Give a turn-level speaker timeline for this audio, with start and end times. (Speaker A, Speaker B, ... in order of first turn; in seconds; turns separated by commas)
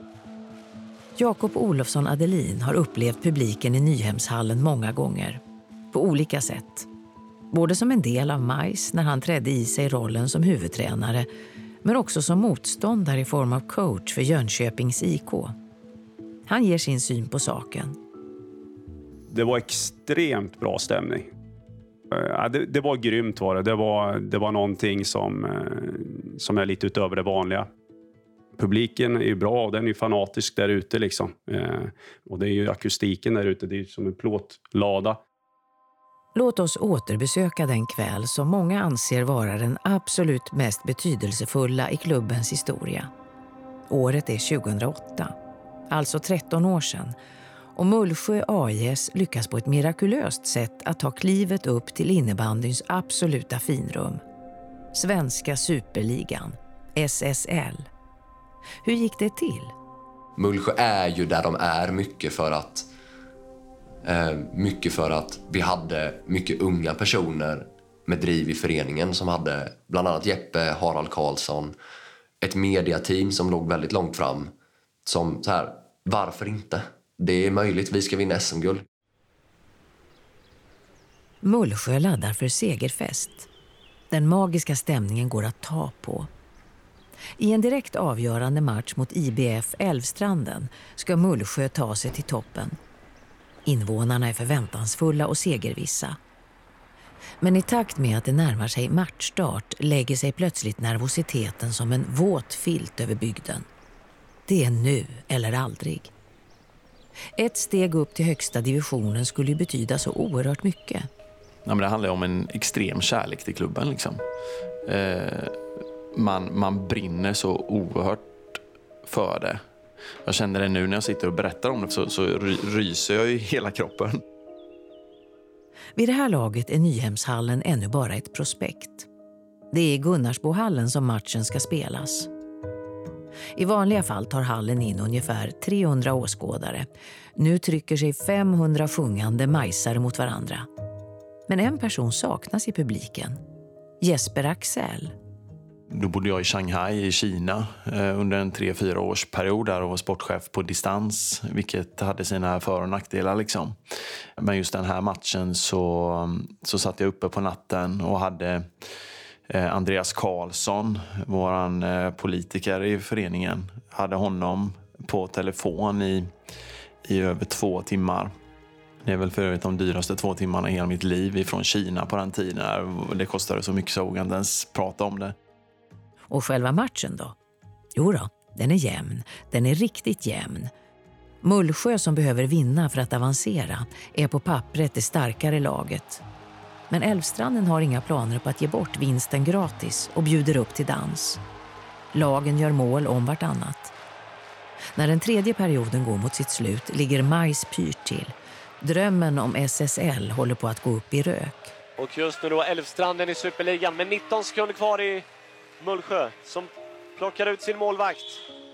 Speaker A: 1.1-5.4, Speaker A: 5.9-6.9, Speaker A: 7.5-11.3, Speaker A: 11.8-15.5, Speaker A: 16.4-18.0, Speaker B: 19.3-21.3, Speaker B: 22.1-27.7, Speaker B: 28.6-35.2, Speaker A: 36.3-43.1, Speaker A: 43.9-45.3, Speaker A: 45.9-47.1, Speaker A: 47.7-54.2, Speaker A: 54.9-57.9, Speaker A: 58.8-59.7, Speaker C: 60.4-62.9, Speaker C: 64.0-71.7, Speaker C: 72.4-74.5, Speaker C: 75.0-78.8, Speaker A: 81.4-83.5, Speaker A: 84.1-86.3, Speaker A: 87.4-92.8, Speaker A: 93.6-96.2, Speaker A: 97.4-103.7, Speaker A: 104.5-106.1, Speaker A: 107.3-111.1, Speaker D: 111.7-114.2, Speaker D: 114.8-115.6, Speaker D: 116.1-119.6, Speaker D: 120.2-124.2, Speaker A: 126.0-129.1, Speaker A: 129.7-132.3, Speaker A: 133.5-140.7, Speaker A: 141.5-143.4, Speaker A: 144.0-145.1, Speaker D: 145.9-153.8, Speaker D: 154.4-158.8, Speaker D: 159.5-166.3, Speaker D: 167.0-168.3, Speaker D: 169.0-175.3, Speaker A: 176.3-177.3, Speaker A: 177.9-180.7, Speaker A: 181.4-186.2, Speaker A: 186.9-191.4, Speaker A: 192.1-193.9, Speaker A: 194.9-201.8, Speaker E: 202.0-205.2, Speaker E: 205.8-208.4